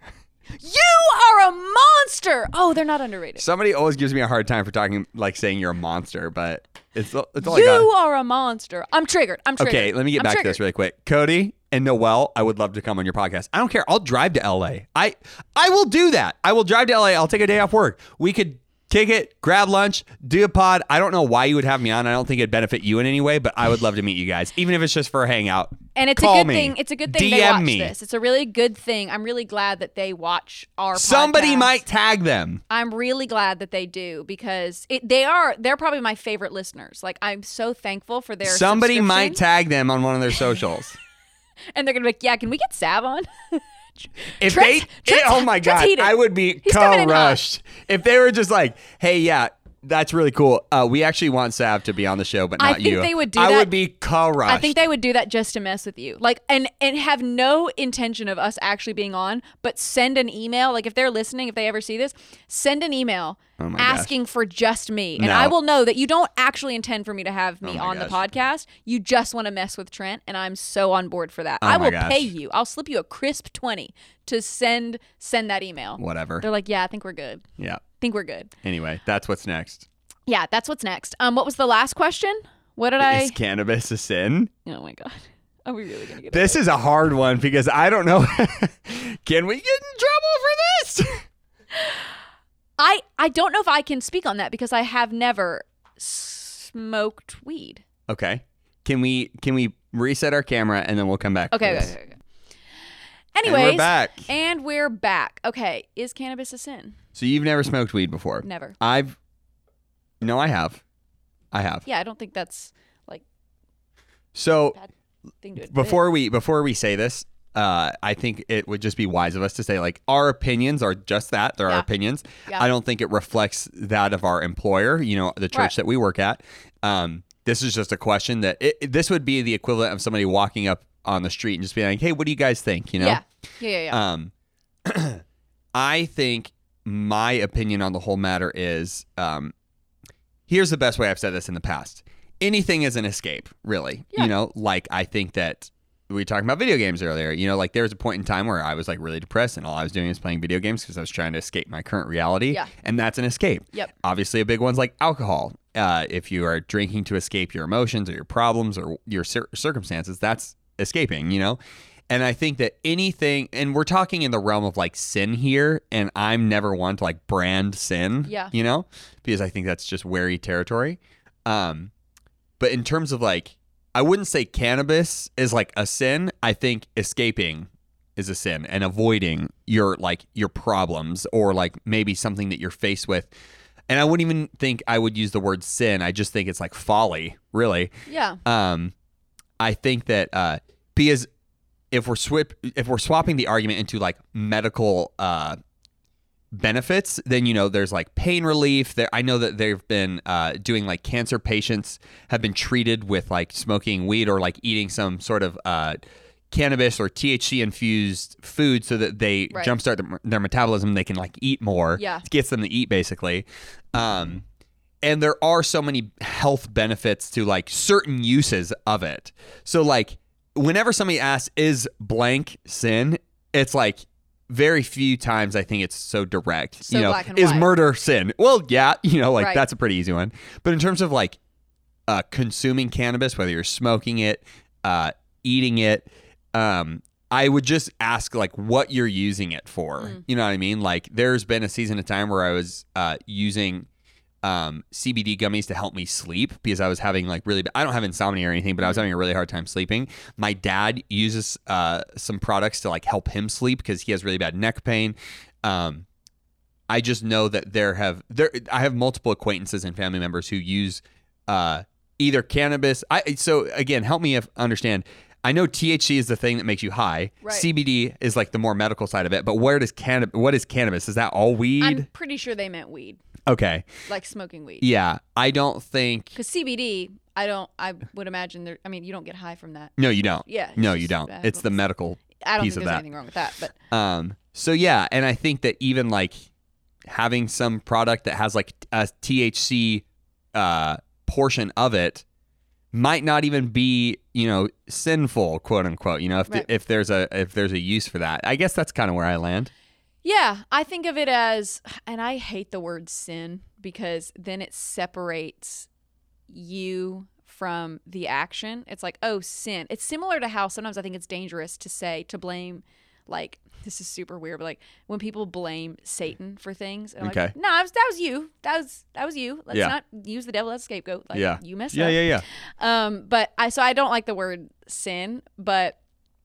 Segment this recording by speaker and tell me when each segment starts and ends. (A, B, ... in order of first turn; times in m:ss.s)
0:00.6-0:03.4 A
0:03.4-0:07.9 B
0:07.4-0:10.6 A
0:09.6-0:27.9 B
0:25.9-0:31.7 A
0:30.9-0:32.6 B
0:32.7-0:39.4 A
0:38.4-0:41.0 B
0:41.7-0:43.6 A
0:44.4-0:47.4 A
0:44.4-0:54.8 B
0:52.6-0:53.7 A
0:54.4-1:17.4 A
1:03.6-1:04.1 B
1:05.2-1:05.5 B
1:07.6-1:08.1 B
1:11.6-1:12.3 B
1:16.0-1:16.4 B
1:18.0-1:18.5 A
1:18.6-1:19.9 B
1:20.3-1:23.4 A
1:23.0-1:24.5 B
1:24.6-1:26.6 A
1:26.3-1:31.2 B
1:31.7-1:32.0 A
1:32.8-1:37.8 A
1:38.1-1:41.9 B
1:41.5-1:42.1 A
1:43.3-1:47.0 A
1:43.4-1:44.3 B
1:47.2-1:49.2 B
1:48.4-1:48.8 A
1:50.2-1:50.8 B
1:51.5-1:51.8 B
1:51.8-1:53.2 A
1:54.3-1:54.8 B
1:55.4-1:56.0 A
1:55.7-2:13.2 B
2:13.0-2:14.0 A
2:13.9-2:14.3 B
2:14.8-2:15.2 B
2:15.7-2:19.5 B
2:20.5-2:41.6 B
2:42.1-2:51.9 B
2:48.2-2:48.5 A
2:52.6-3:03.3 B
3:03.9-3:07.9 B
3:08.1-3:08.4 A
3:08.4-3:08.9 B
3:09.6-3:11.3 B
3:11.9-3:15.6 B
3:16.5-3:26.0 B
3:26.5-3:34.4 B
3:32.0-3:32.2 A
3:35.0-3:51.4 B
3:46.8-3:47.7 A
3:49.4-3:49.6 A
3:52.1-4:03.9 B
4:04.4-4:16.1 B
4:16.9-4:32.0 B
4:27.4-4:27.7 A
4:31.8-4:33.2 A
4:33.5-4:33.9 B
4:34.1-4:34.8 A
4:34.8-4:36.4 B
4:36.3-4:41.8 A
4:40.0-4:43.0 B
4:42.4-4:43.7 A
4:43.9-4:46.4 B
4:47.1-4:52.2 B
4:52.9-4:59.7 B
5:00.2-5:05.9 A
5:06.5-5:26.0 A
5:17.2-5:17.5 B
5:21.3-5:22.4 B